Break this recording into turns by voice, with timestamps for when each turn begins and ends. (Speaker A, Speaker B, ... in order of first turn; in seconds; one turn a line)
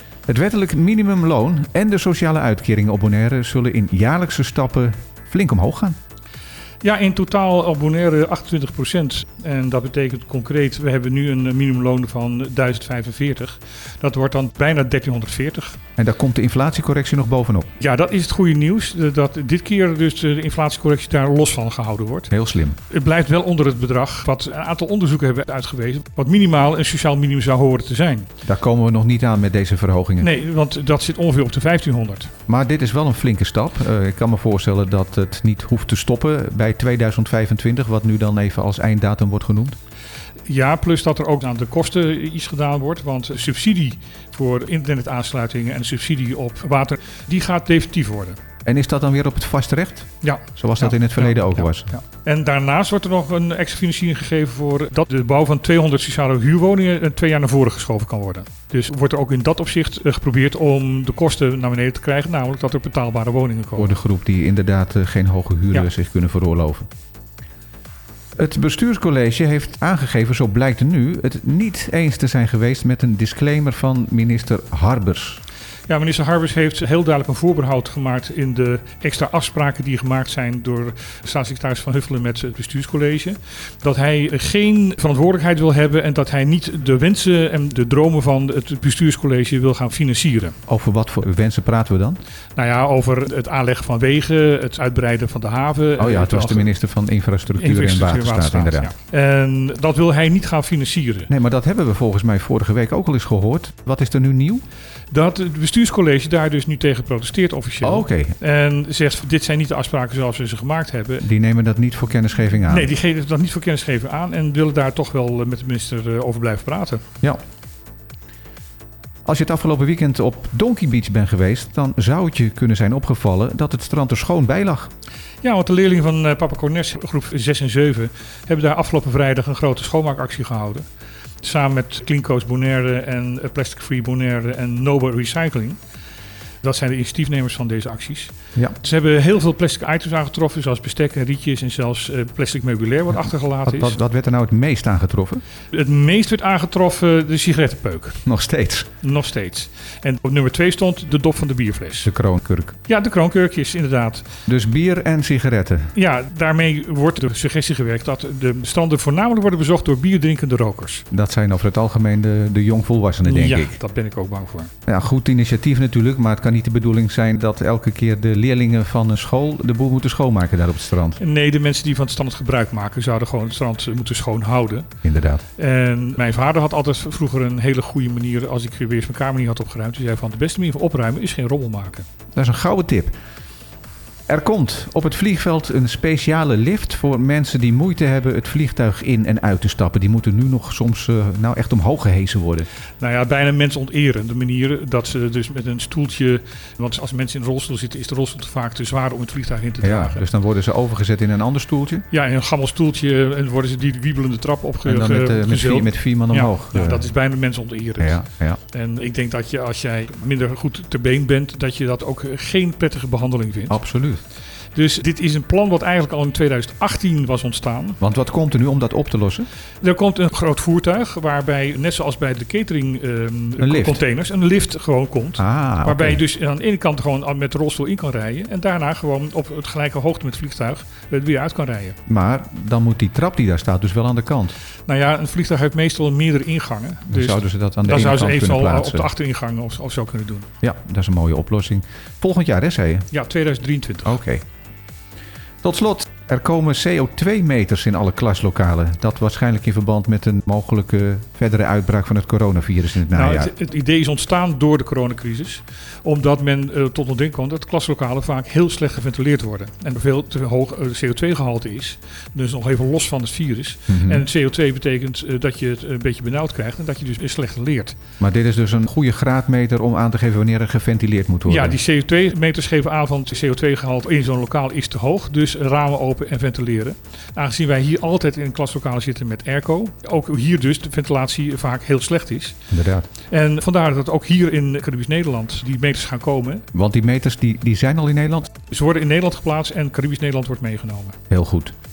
Speaker A: 0.3-6.0
Speaker B: 6.8-15.8
Speaker A: 16.0-17.7
Speaker B: 17.8-22.3
Speaker A: 22.3-22.8
Speaker B: 22.9-28.3
Speaker A: 28.4-30.3
Speaker B: 30.2-32.3
Speaker A: 32.5-39.8
Speaker B: 40.5-48.4
Speaker A: 48.6-51.9
Speaker B: 50.2-64.0
Speaker A: 63.8-66.9
Speaker A: 68.4-75.4
Speaker B: 75.9-90.5
Speaker A: 90.7-92.2
Speaker B: 92.5-96.7
Speaker A: 96.0-98.9
Speaker B: 97.6-101.3
Speaker A: 101.3-104.6
Speaker B: 105.1-111.3
Speaker A: 107.8-108.3
Speaker A: 111.2-112.9
Speaker B: 112.6-117.0
Speaker A: 119.2-124.9
Speaker B: 125.4-130.8
Speaker B: 131.4-135.8
Speaker B: 136.6-144.0
Speaker A: 143.7-145.4
Speaker B: 145.7-148.2
Speaker A: 148.2-148.9
Speaker B: 149.0-152.1
Speaker A: 152.0-152.7
Speaker B: 152.8-154.3
Speaker A: 154.5-155.9
Speaker B: 155.9-161.1
Speaker A: 161.1-163.7
Speaker B: 163.2-164.7
Speaker A: 164.8-171.2
Speaker B: 171.2-174.9
Speaker A: 175.0-175.4
Speaker B: 175.6-182.1
Speaker A: 182.3-183.1
Speaker A: 184.3-192.7
Speaker B: 193.0-200.2
Speaker A: 199.8-202.0
Speaker B: 202.1-213.8
Speaker A: 204.8-207.0
Speaker A: 208.0-208.6
Speaker A: 213.7-214.2
Speaker B: 214.7-218.0
Speaker A: 218.0-219.5
Speaker B: 219.8-232.0
Speaker A: 223.6-224.0
Speaker A: 225.4-226.2
Speaker A: 232.1-234.5
Speaker B: 234.9-240.5
Speaker A: 237.1-239.1
Speaker A: 240.6-243.1
Speaker B: 243.1-244.2
Speaker A: 244.0-244.4
Speaker A: 245.6-253.5
Speaker B: 253.1-267.9
Speaker A: 263.9-264.2
Speaker A: 268.2-271.8
Speaker B: 271.5-282.6
Speaker A: 282.7-283.1
Speaker B: 283.3-286.6
Speaker A: 286.7-288.5
Speaker B: 288.7-291.2
Speaker A: 291.3-291.7